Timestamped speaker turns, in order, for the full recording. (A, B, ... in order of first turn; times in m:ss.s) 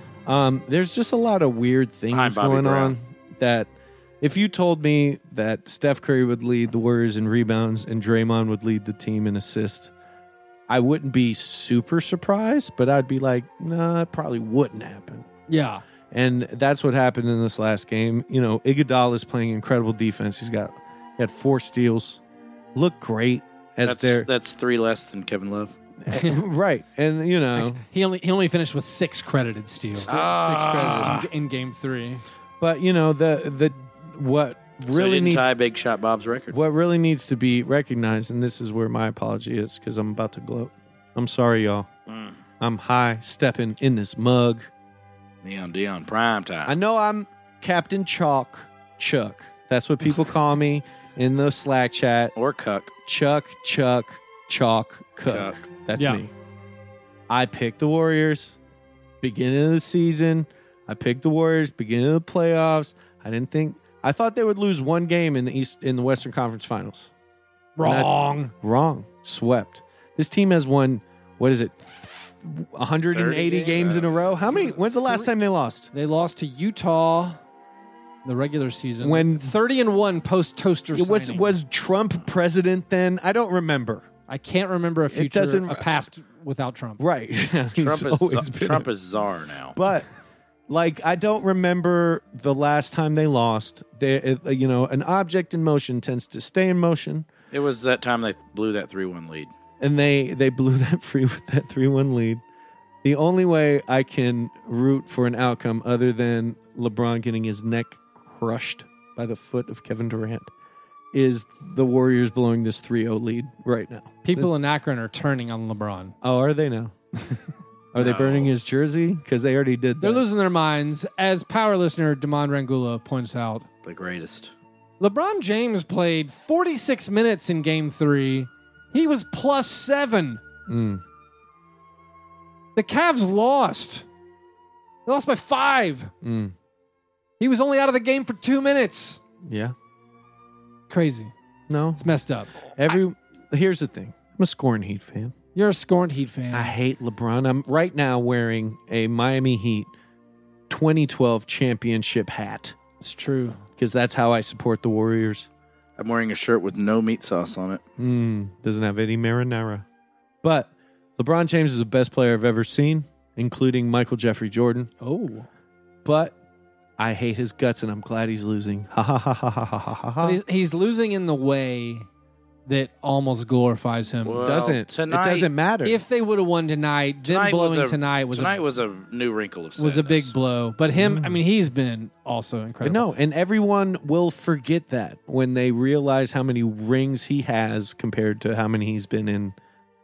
0:00.2-0:09.9 A
0:02.1-0:02.9 B
0:10.7-0:15.3 A
0:15.5-0:15.8 C
0:16.1-0:22.2 A
0:22.7-0:24.3 A
0:23.8-0:25.7 B
0:26.0-0:27.8 A
0:26.1-0:26.4 C
0:27.5-0:32.2 C
0:30.0-0:31.3 B
0:30.0-0:31.2 A
0:32.6-0:35.5 A
0:34.9-0:36.5 B
0:36.5-0:41.9 A
0:42.1-0:42.4 B
0:42.6-0:44.7 A
0:45.4-0:46.8 B
0:46.6-0:52.3 A
0:52.4-0:52.9 B
0:53.0-0:56.3 A
0:55.3-0:55.6 B
0:55.9-0:56.2 C
0:57.3-0:58.6 A
0:59.2-1:07.1 A
1:07.8-1:08.5 C
1:07.8-1:15.9 A
1:13.1-1:14.8 B
1:14.8-1:15.3 C
1:15.9-1:17.4 C
1:18.2-1:21.5 C
1:19.0-1:19.5 A
1:20.9-1:24.0 A
1:24.3-1:27.0 C
1:25.1-1:25.9 A
1:27.0-1:28.9 A
1:27.7-1:29.7 B
1:29.7-1:30.1 A
1:30.7-1:37.3 A
1:37.5-1:39.5 B
1:39.8-1:42.4 A
1:43.0-1:50.5 A
1:51.1-1:54.5 A
1:54.2-1:56.1 C
1:56.2-1:57.4 A
1:57.9-2:00.2 A
1:58.0-1:58.5 B
2:00.0-2:03.6 C
2:03.8-2:04.5 B
2:05.0-2:10.4 C
2:10.7-2:11.0 A
2:12.8-2:14.0 C
2:15.0-2:16.1 C
2:16.2-2:16.5 A
2:17.4-2:19.2 C
2:19.4-2:19.7 A
2:20.9-2:21.3 C
2:21.7-2:22.0 A
2:22.0-2:22.7 C
2:22.8-2:25.3 A
2:25.5-2:26.7 C
2:26.5-2:29.9 A
2:30.7-2:32.8 A
2:33.0-2:33.6 C
2:33.8-2:35.5 A
2:36.0-2:37.8 B
2:38.0-2:39.8 A
2:40.4-2:44.9 A
2:45.0-2:45.5 C
2:46.0-2:46.4 A
2:47.0-2:50.4 A
2:50.2-2:52.1 C
2:52.6-2:54.5 C
2:54.2-2:55.5 B
2:54.4-2:56.0 A
2:55.8-2:58.5 C
2:57.2-3:00.3 B
2:59.8-3:03.0 C
3:00.9-3:01.4 A
3:02.8-3:09.6 A